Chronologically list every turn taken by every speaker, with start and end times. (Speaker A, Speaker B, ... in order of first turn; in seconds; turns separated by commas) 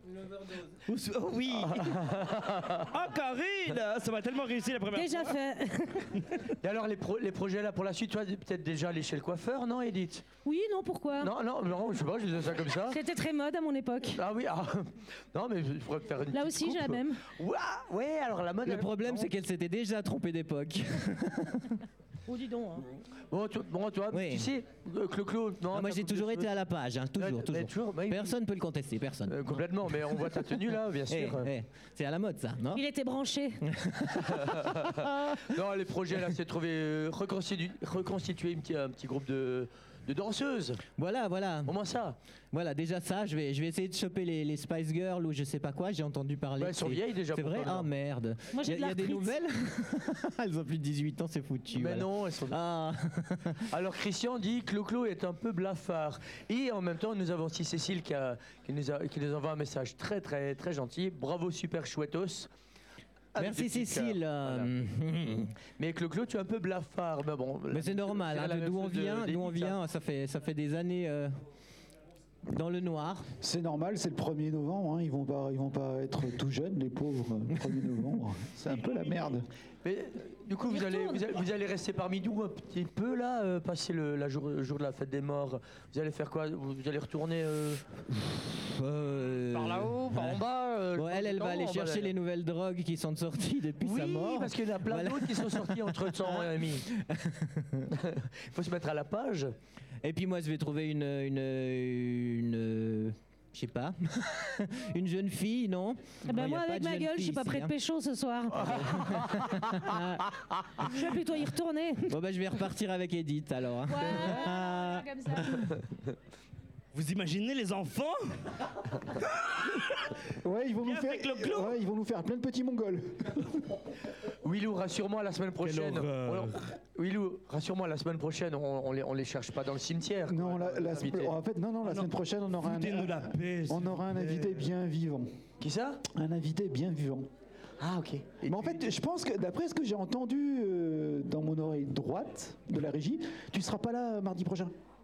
Speaker A: 0.7-2.0, Speaker B: 1.5-3.0, Speaker A: 2.8-5.4, Speaker C: 4.9-6.2, Speaker A: 6.2-6.5, Speaker B: 6.6-10.3, Speaker C: 10.4-11.3, Speaker B: 11.2-13.0, Speaker C: 12.8-14.2, Speaker B: 14.1-19.3, Speaker C: 16.3-17.3, Speaker D: 18.6-21.8, Speaker C: 22.3-22.9, Speaker B: 23.3-26.5, Speaker D: 24.1-24.5, Speaker D: 25.7-30.5, Speaker B: 27.2-28.4, Speaker B: 29.3-31.5, Speaker D: 31.1-32.8, Speaker C: 32.8-33.6, Speaker D: 33.6-35.5, Speaker B: 34.3-40.8, Speaker D: 41.0-41.7, Speaker B: 41.7-42.2, Speaker D: 42.5-53.7, Speaker B: 46.6-47.9, Speaker C: 48.5-49.4, Speaker B: 51.7-52.6, Speaker B: 53.7-62.5, Speaker B: 63.4-64.7, Speaker D: 63.4-65.5, Speaker B: 65.8-69.8, Speaker D: 67.7-71.3, Speaker D: 72.5-73.3, Speaker E: 73.4-79.5, Speaker B: 79.8-87.8, Speaker C: 80.6-81.2, Speaker D: 88.2-90.3, Speaker B: 89.5-92.1, Speaker D: 91.0-97.9, Speaker B: 93.8-96.8, Speaker B: 97.9-99.5, Speaker D: 100.0-107.7, Speaker C: 106.3-109.0, Speaker B: 108.5-109.9, Speaker D: 108.6-110.3, Speaker C: 110.8-112.1, Speaker D: 112.1-115.6, Speaker C: 113.9-115.7, Speaker B: 114.0-114.3, Speaker A: 116.9-118.5, Speaker A: 119.4-120.1, Speaker E: 120.4-123.6, Speaker A: 120.9-121.8, Speaker B: 124.4-131.3, Speaker A: 125.6-126.7, Speaker E: 130.3-135.3, Speaker A: 131.8-132.1, Speaker A: 132.6-134.6, Speaker B: 135.6-136.0, Speaker E: 136.1-137.3, Speaker B: 137.8-138.8, Speaker E: 138.4-144.7